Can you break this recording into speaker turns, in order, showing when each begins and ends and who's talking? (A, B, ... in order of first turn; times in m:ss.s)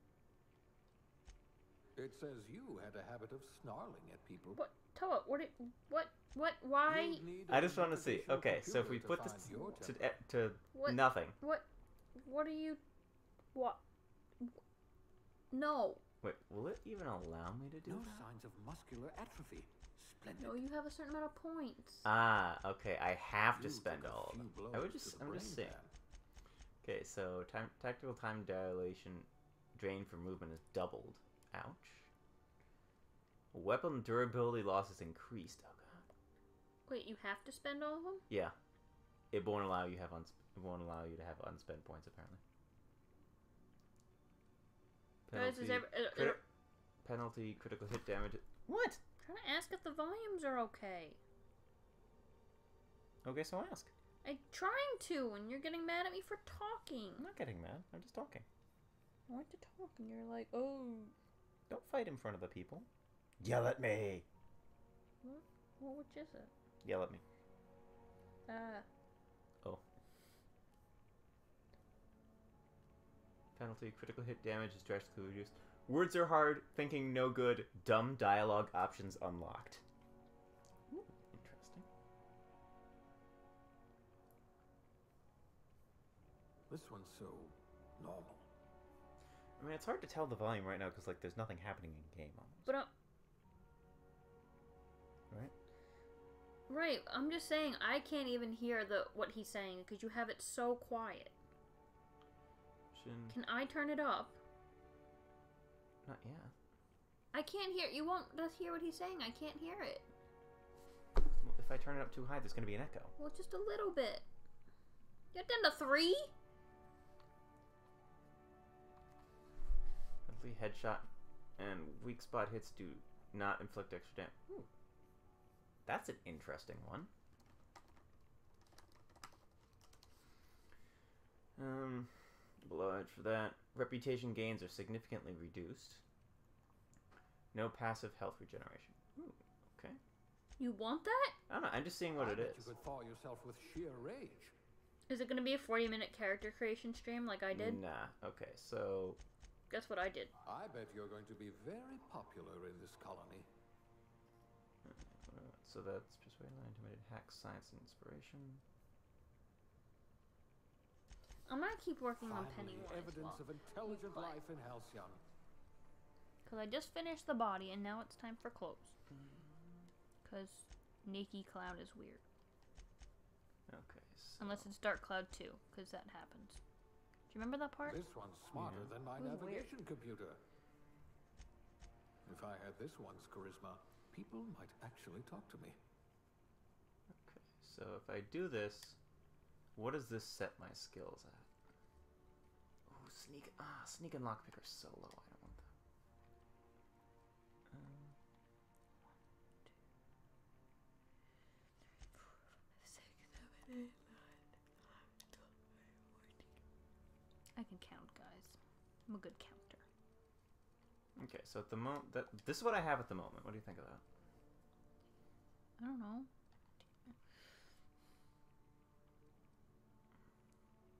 0:02.0-0:04.6 A
0:04.5-0:07.2 B
0:06.8-0:10.0 A
0:07.5-0:11.4 C
0:09.5-0:09.8 B
0:10.7-0:12.8 B
0:13.5-0:13.8 B
0:15.5-0:16.0 B
0:16.2-0:18.3 C
0:17.8-0:20.6 A
0:20.4-0:22.0 B
0:22.0-0:25.8 C
0:23.6-0:25.9 A
0:26.8-0:32.1 C
0:33.5-0:36.1 C
0:36.9-0:38.2 B
0:38.3-0:38.5 C
0:39.3-0:42.4 C
0:45.3-0:46.4 C
0:45.3-0:46.4 B
0:47.0-0:49.0 C
0:49.2-0:51.2 B
0:53.2-0:53.9 C
0:54.2-0:57.3 B
0:57.2-0:58.4 C
0:59.3-1:01.1 B
1:01.7-1:02.9 C
1:03.4-1:04.2 C
1:05.2-1:06.5 B
1:06.8-1:07.2 C
1:08.5-1:08.8 B
1:13.5-1:19.8 C
1:20.9-1:21.9 C
1:26.7-1:28.4 A
1:29.6-1:32.7 C
1:32.6-1:32.9 B
1:36.7-1:41.3 B
1:42.9-1:43.4 C
1:43.3-1:44.4 B
1:46.0-1:46.5 C
1:47.3-1:50.1 B
1:51.4-1:53.1 C
1:53.2-1:54.2 B
1:55.3-1:56.3 B
2:00.2-2:04.7 C
2:05.8-2:07.1 C
2:11.6-2:16.0 C
2:17.5-2:20.0 C
2:20.6-2:21.4 B
2:21.5-2:22.7 C
2:22.1-2:24.5 A
2:25.1-2:27.8 B
2:27.5-2:29.2 C
2:29.7-2:30.3 B
2:30.4-2:33.5 A
2:34.8-2:38.6 C
2:41.5-2:44.4 B
2:42.2-2:45.2 A
2:46.4-2:49.0 B
2:49.1-2:49.9 C
2:50.2-2:52.2 B
2:53.7-2:54.7 C
2:54.4-2:56.6 B
2:57.3-2:58.0 B
2:57.8-3:00.4 A
2:58.5-2:58.9 C
2:59.2-2:59.7 B
3:02.2-3:05.8 A
3:07.1-3:09.0 C
3:09.7-3:11.5 C
3:12.9-3:15.7 C
3:17.7-3:18.2 C
3:22.7-3:24.4 B
3:27.6-3:29.8 B
3:31.2-3:34.0 C
3:35.8-3:36.3 B